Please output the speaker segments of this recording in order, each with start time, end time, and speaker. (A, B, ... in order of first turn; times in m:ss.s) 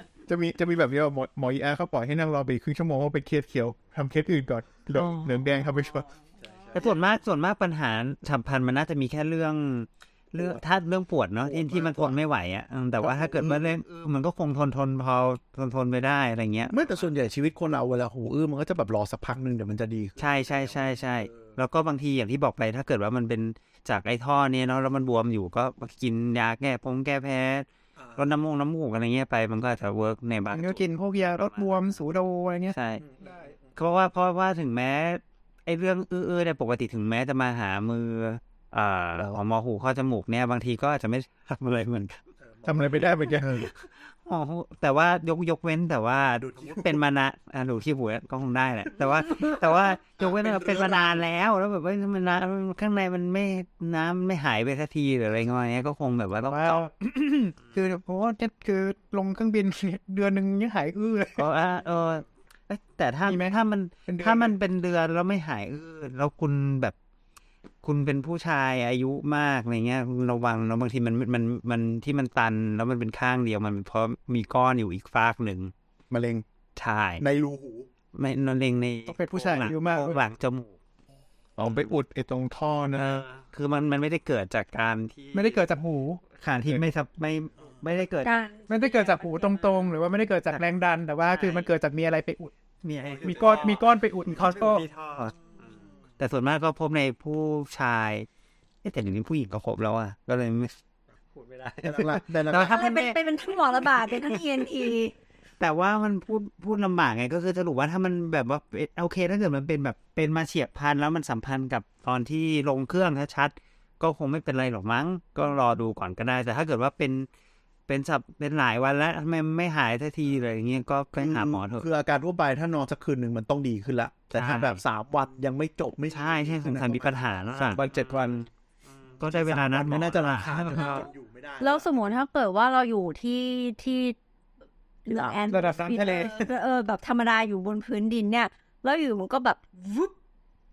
0:00.3-0:06.0 A
0:04.9-0:05.3 B
0:06.7-0:16.7 B
0:11.4-0:12.1 C
0:13.0-0:13.7 C
0:16.7-0:20.3 C
0:20.2-0:31.9 B
0:30.5-0:32.8 D
0:32.7-0:33.0 B
0:33.8-0:42.2 B
0:42.6-0:43.7 C
0:42.6-0:43.7 A
0:43.8-0:56.8 B
0:46.4-0:47.0 C
0:50.2-0:51.0 C
0:56.5-1:01.4 D
1:01.4-1:06.9 B
1:03.3-1:03.5 D
1:04.1-1:04.5 D
1:07.8-1:15.7 B
1:16.1-1:16.4 C
1:16.8-1:17.2 B
1:17.2-1:17.9 C
1:18.1-1:20.7 B
1:19.1-1:20.2 D
1:21.6-1:23.2 A
1:23.0-1:25.6 B
1:25.3-1:26.2 D
1:26.4-1:28.3 B
1:28.2-1:29.2 E
1:28.7-1:32.5 D
1:31.3-1:31.7 B
1:32.8-1:35.3 B
1:33.2-1:34.8 D
1:36.2-1:38.3 B
1:38.8-1:40.8 B
1:41.3-1:43.2 B
1:41.8-1:42.9 C
1:42.6-1:45.1 E
1:43.8-1:44.4 B
1:45.6-1:57.3 B
1:57.9-2:01.8 B
2:01.2-2:07.8 C
2:04.3-2:04.8 B
2:06.1-2:08.0 B
2:07.7-2:08.4 A
2:09.0-2:11.0 B
2:09.2-2:12.2 C
2:10.8-2:11.1 E
2:11.6-2:14.2 E
2:15.0-2:20.1 E
2:15.1-2:15.4 C
2:15.5-2:16.4 D